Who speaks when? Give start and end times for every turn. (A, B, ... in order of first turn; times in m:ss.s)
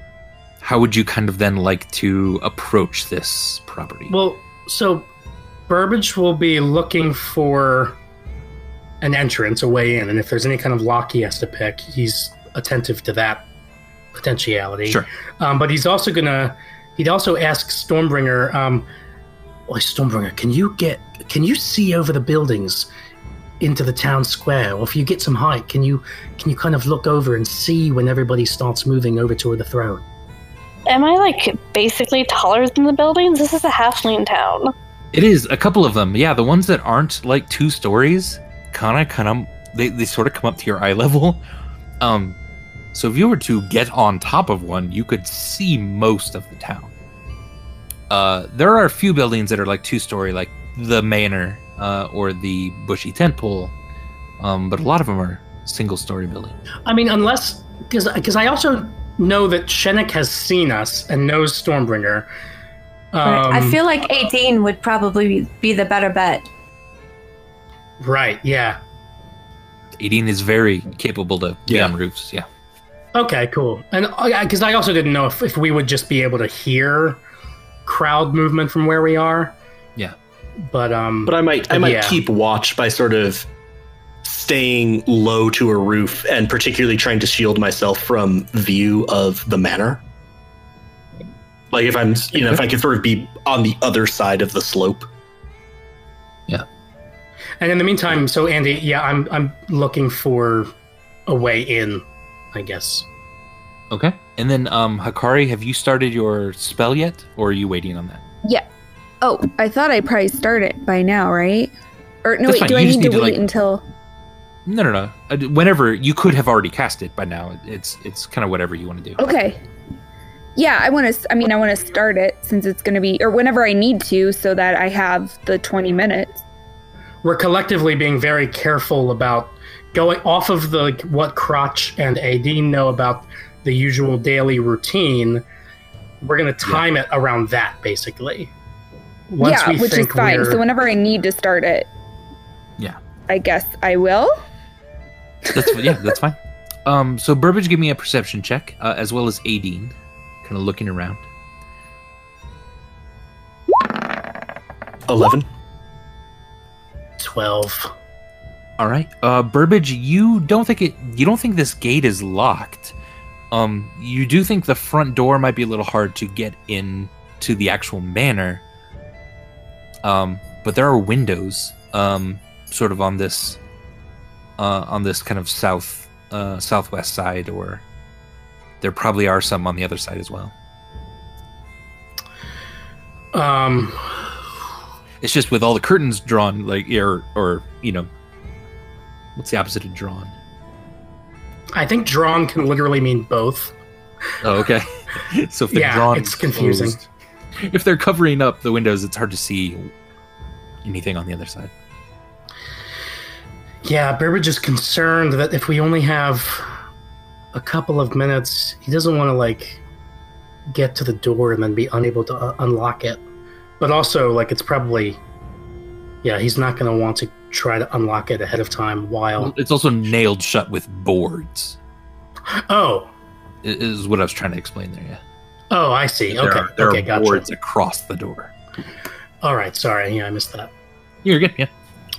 0:00.6-0:04.1 A
0:04.1-0:05.1 B
0:05.7-0:08.0 B
0:09.0-0:13.5 B
0:14.1-0:18.9 B
0:19.7-0:22.9 B
0:23.6-0:30.0 B
0:30.9-0:34.7 C
0:35.1-0:41.4 A
0:42.0-0:42.4 A
0:42.9-0:46.9 A
0:48.1-0:53.7 A
0:54.4-0:56.6 A
0:56.9-1:02.3 B
1:03.1-1:03.8 B
1:03.2-1:06.5 D
1:08.0-1:08.8 B
1:10.0-1:12.5 A
1:11.7-1:11.9 E
1:13.1-1:17.2 B
1:17.8-1:19.6 B
1:20.6-1:22.2 B
1:21.3-1:23.5 E
1:24.2-1:30.0 E
1:31.7-1:35.1 E
1:32.4-1:32.6 A
1:37.6-1:40.7 B
1:41.3-1:43.1 B
1:43.9-1:48.2 A
1:49.2-1:51.7 F
1:52.2-1:53.8 F
1:52.5-1:53.4 A
1:54.7-1:59.2 A
1:59.2-1:59.6 F
2:00.6-2:06.4 F
2:07.2-2:15.4 B
2:16.2-2:18.5 B
2:19.3-2:20.6 B
2:19.4-2:21.9 F
2:23.3-2:24.4 F
2:25.5-2:31.2 A
2:35.1-2:35.5 E
2:37.2-2:37.9 B
2:38.8-2:42.9 A
2:43.5-2:48.6 A
2:50.0-2:53.6 A
2:54.6-2:57.8 A
2:58.8-3:00.5 A
3:03.3-3:04.2 B
3:05.2-3:08.1 A
3:09.4-3:10.3 A
3:11.8-3:13.8 B
3:14.4-3:17.0 A
3:15.7-3:17.0 B
3:17.6-3:19.9 A
3:20.8-3:21.7 A
3:23.8-3:26.7 B
3:27.5-3:29.8 B
3:30.7-3:33.2 B
3:33.8-3:35.2 B
3:36.2-3:39.5 B
3:39.4-3:41.8 A
3:42.5-3:43.1 B
3:43.6-3:45.2 A
3:45.7-3:47.5 B
3:46.3-3:48.5 A
3:49.4-3:50.7 B
3:51.2-3:51.7 A